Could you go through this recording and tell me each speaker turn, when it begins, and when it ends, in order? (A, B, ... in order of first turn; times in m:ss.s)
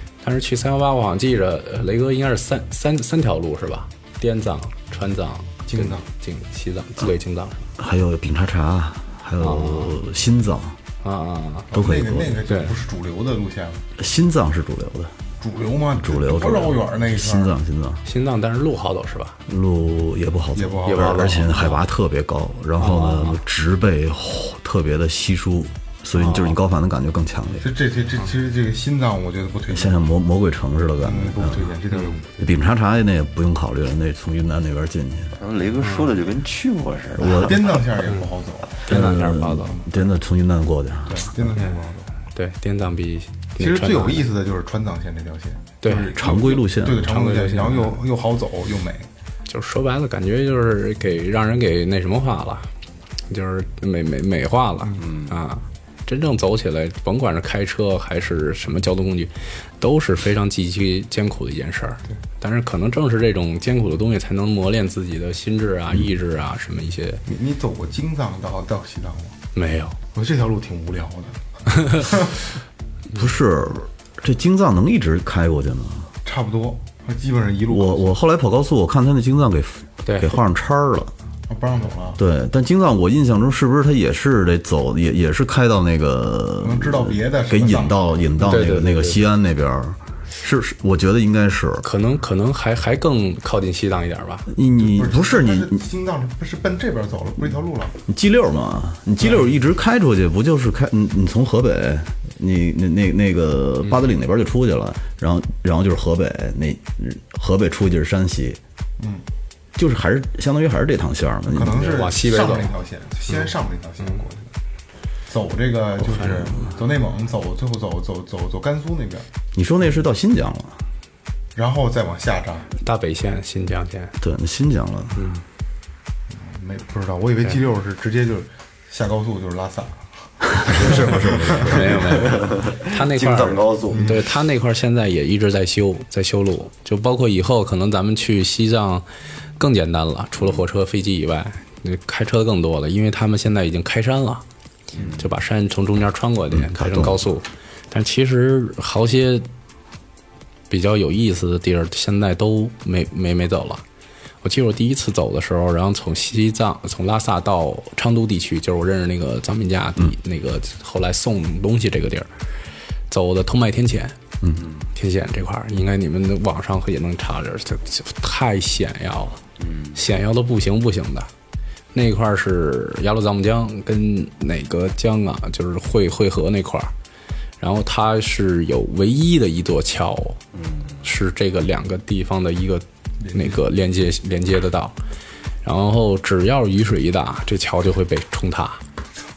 0:00.2-0:07.7 A
0:05.7-0:06.0 B
0:07.8-0:10.8 C
0:09.4-0:09.9 A
0:11.0-0:11.7 A
0:11.7-0:13.8 B
0:11.7-0:12.4 C
0:12.5-0:12.7 A
0:14.0-0:15.1 C
0:15.4-0:17.5 B
0:16.0-0:18.0 C
0:18.0-0:19.4 A
0:19.5-0:27.6 C
0:20.5-0:21.6 B
0:20.9-0:21.8 A
0:22.8-0:23.4 A
0:26.2-0:26.5 A
0:27.6-0:30.1 B
0:29.7-0:31.7 C
0:31.0-0:32.3 B
0:32.4-0:35.4 C
0:35.4-0:37.7 D
0:35.8-0:36.1 A
0:37.2-0:37.8 C
0:37.2-0:39.0 B
0:38.8-0:39.8 A
0:38.9-0:41.6 C
0:39.6-0:39.9 B
0:41.0-0:42.1 B
0:42.3-0:44.3 A
0:43.6-0:49.1 B
0:45.8-0:46.1 A
0:46.0-0:47.2 C
0:47.0-0:48.0 A
0:49.5-0:52.7 A
0:53.3-1:07.2 A
0:55.0-0:55.4 D
1:07.3-1:09.4 B
1:09.6-1:10.0 A
1:10.1-1:12.4 B
1:13.1-1:16.1 C
1:16.2-1:18.1 B
1:17.7-1:21.1 C
1:20.0-1:20.4 A
1:21.5-1:22.2 B
1:22.2-1:31.9 C
1:26.6-1:28.2 B
1:28.4-1:29.3 A
1:31.8-1:34.5 A
1:34.5-1:35.8 C
1:34.7-1:38.0 B
1:38.1-1:48.6 C
1:49.0-1:49.2 B
1:49.8-1:51.9 C
1:51.5-1:54.5 B
1:51.7-1:52.8 A
1:55.3-1:59.3 B
1:56.2-1:56.6 A
1:59.5-2:00.8 C
2:01.6-2:02.7 B
2:02.8-2:04.1 A
2:04.2-2:05.3 C
2:05.2-2:05.4 A
2:06.3-2:10.1 B
2:10.6-2:12.2 C
2:10.6-2:11.7 B
2:11.6-2:19.0 A
2:12.0-2:14.2 D
2:13.9-2:14.2 B
2:19.6-2:24.4 A
2:20.4-2:20.6 D
2:24.9-2:25.3 D
2:25.2-2:29.5 A
2:26.5-2:27.2 C
2:30.7-2:33.8 A
2:34.4-2:42.3 A
2:43.1-2:44.2 A
2:44.6-2:44.9 D
2:44.9-2:49.4 A
2:49.6-2:50.0 D
2:49.9-2:51.3 A
2:51.9-2:56.9 A
2:57.6-3:00.4 A
3:00.5-3:01.0 D
3:01.0-3:05.0 A
3:03.2-3:03.6 B
3:05.6-3:08.8 A